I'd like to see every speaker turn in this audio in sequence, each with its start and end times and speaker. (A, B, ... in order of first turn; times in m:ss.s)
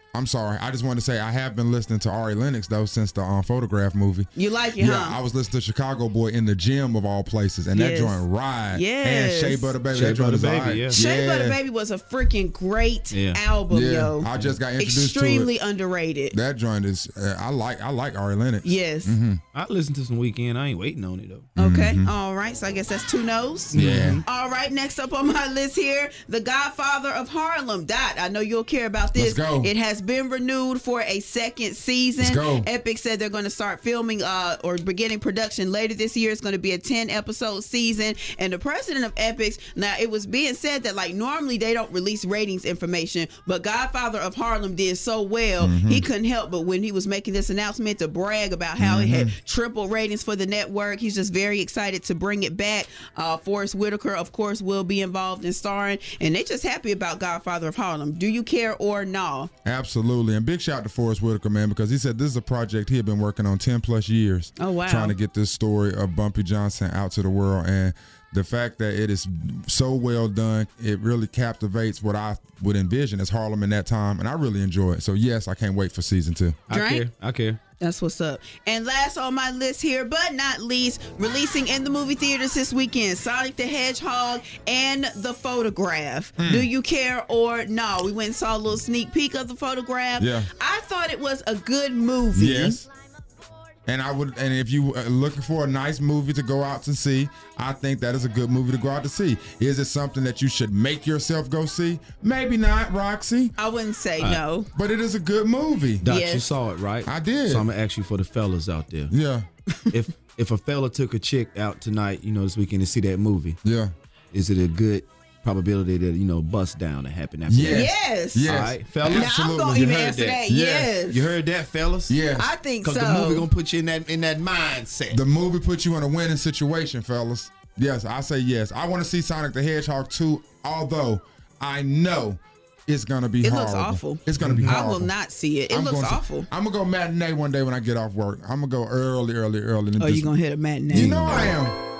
0:00.1-0:11.6 A
0:04.4-0:05.2 B
0:07.7-0:09.8 B
0:09.9-0:11.0 C
0:10.9-0:16.4 B
0:13.1-0:13.4 C
0:13.7-0:15.5 A
0:16.3-0:19.4 A
0:18.6-0:19.2 B
0:19.5-0:21.5 C
0:21.6-0:22.1 A
0:21.6-0:59.5 B
0:23.7-0:24.2 C
0:23.7-0:24.2 A
0:29.2-0:29.7 A
0:32.2-0:32.7 A
0:45.6-0:46.1 A
0:48.8-0:49.3 A
0:59.6-1:16.6 A
1:04.6-1:05.2 B
1:16.7-1:17.6 C
1:16.7-1:17.1 B
1:17.8-1:32.8 B
1:26.4-1:26.7 A
1:30.2-1:30.5 A
1:32.3-1:32.9 A
1:33.9-1:43.6 A
1:43.6-1:44.7 B
1:44.7-1:46.1 A
1:46.0-1:49.1 C
1:46.1-1:46.4 B
1:47.1-1:47.7 A
1:49.1-1:49.5 A
1:49.9-1:53.6 C
1:53.6-1:53.9 A
1:54.3-2:00.4 C
1:57.5-1:59.7 A
1:57.7-1:58.5 B
1:59.1-2:01.3 B
2:00.4-2:00.9 A
2:01.1-2:02.2 C
2:02.1-2:02.5 A
2:02.4-2:03.5 B
2:02.8-2:05.2 C
2:05.1-2:15.1 A
2:13.4-2:16.5 B
2:14.4-2:14.8 C
2:15.7-2:20.3 A
2:20.0-2:21.5 B
2:20.9-2:21.8 A
2:20.9-2:21.6 C